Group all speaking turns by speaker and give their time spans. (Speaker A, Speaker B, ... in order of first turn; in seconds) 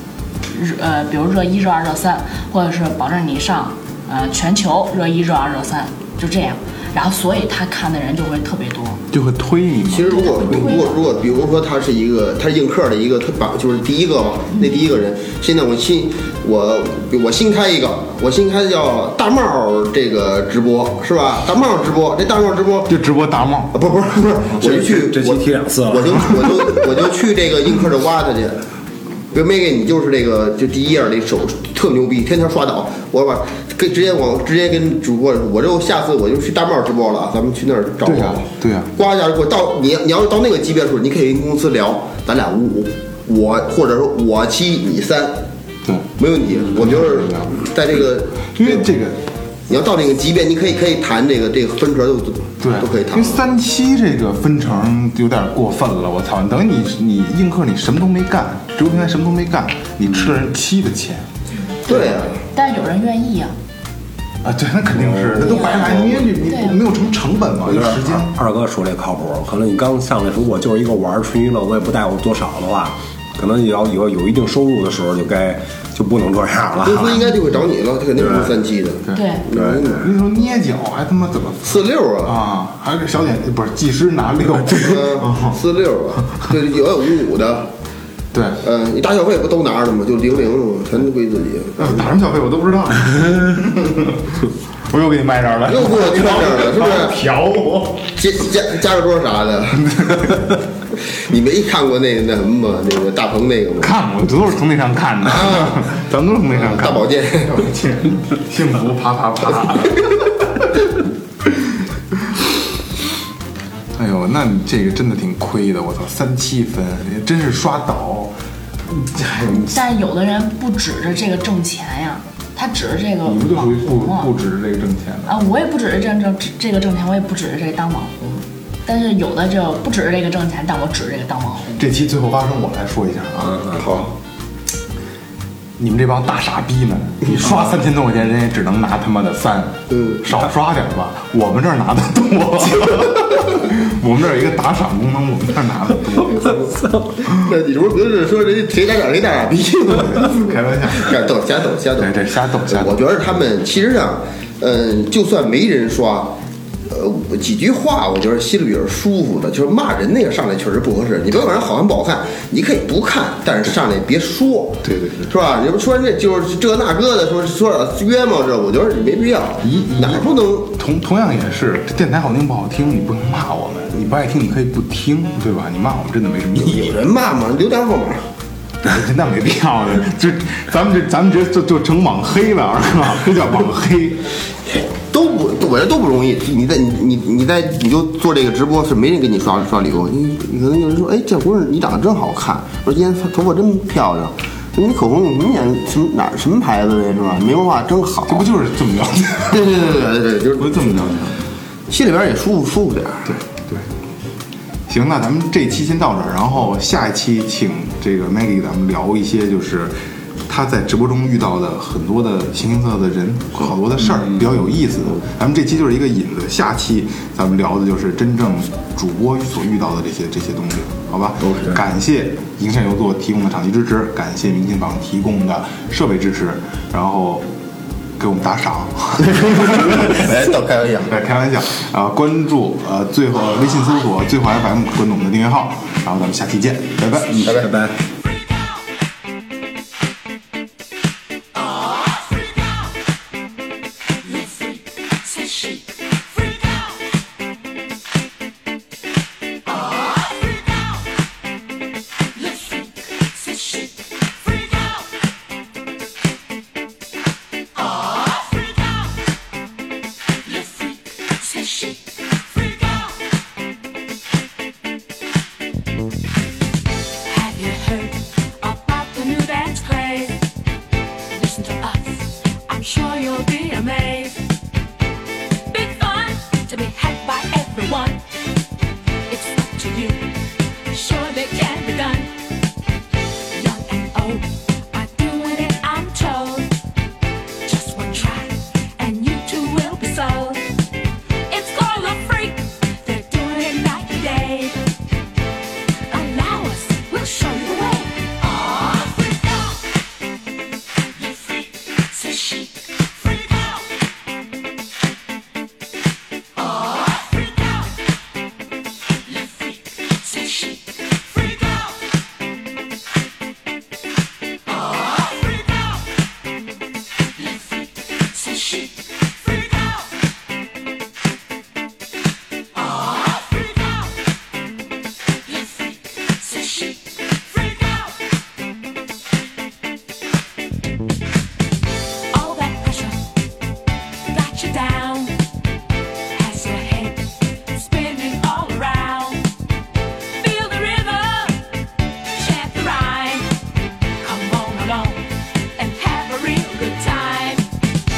Speaker A: 0.5-9.0, 10.1-11.0, 61.9-63.5, 65.4-66.8, 79.1-79.5, 119.7-124.3, 125.3-131.8
Speaker B: 9.1-10.8, 22.9-23.8, 38.0-38.9, 45.9-47.6, 48.5-49.2, 52.6-61.3, 64.4-68.4, 79.9-85.6, 88.3-88.6, 91.8-98.2, 99.8-100.6, 103.8-110.8, 111.4-112.4, 114.0-119.7, 123.2-125.3, 131.8-134.1, 135.8-146.6, 150.1-151.2, 152.0-153.0, 164.8-165.3, 169.6-177.0, 178.8-184.3, 198.3-199.8, 200.6-201.4, 203.3-203.9, 204.9-209.9, 210.5-227.5, 228.2-230.5, 231.0-237.6
Speaker C: 9.9-22.9, 23.7-28.6, 29.3-45.5, 46.2-48.9, 49.7-53.4, 61.9-62.4, 65.7-66.2, 76.8-80.1, 81.6-82.4, 84.7-87.7, 88.6-92.1, 95.7-97.2, 98.2-100.3, 101.1-103.9, 105.3-105.9, 106.5-107.7, 133.8-134.1, 139.9-140.2, 146.3-152.1, 152.7-156.4, 156.9-170.7, 176.6-178.3, 185.1-198.5, 199.5-201.0, 201.9-203.4, 229.4-231.1
Speaker D: 24.6-26.7, 65.0-65.4, 67.7-77.2, 78.2-78.6, 79.5-80.0, 237.4-238.0
Speaker E: 244.2-246.9, 252.3-255.0, 258.0-258.7, 260.4-263.1, 267.3-270.4, 271.3-274.4, 275.7-278.2, 279.3-280.3, 280.9-282.3, 283.5-286.7, 287.6-290.6, 291.5-294.8, 296.1-299.5, 301.2-303.9, 306.7-307.9, 309.3-311.9, 317.4-320.0, 323.1-323.9, 325.5-328.1, 332.3-333.2, 334.3-335.4, 336.3-339.5, 340.4-341.6, 342.3-343.5, 344.2-347.7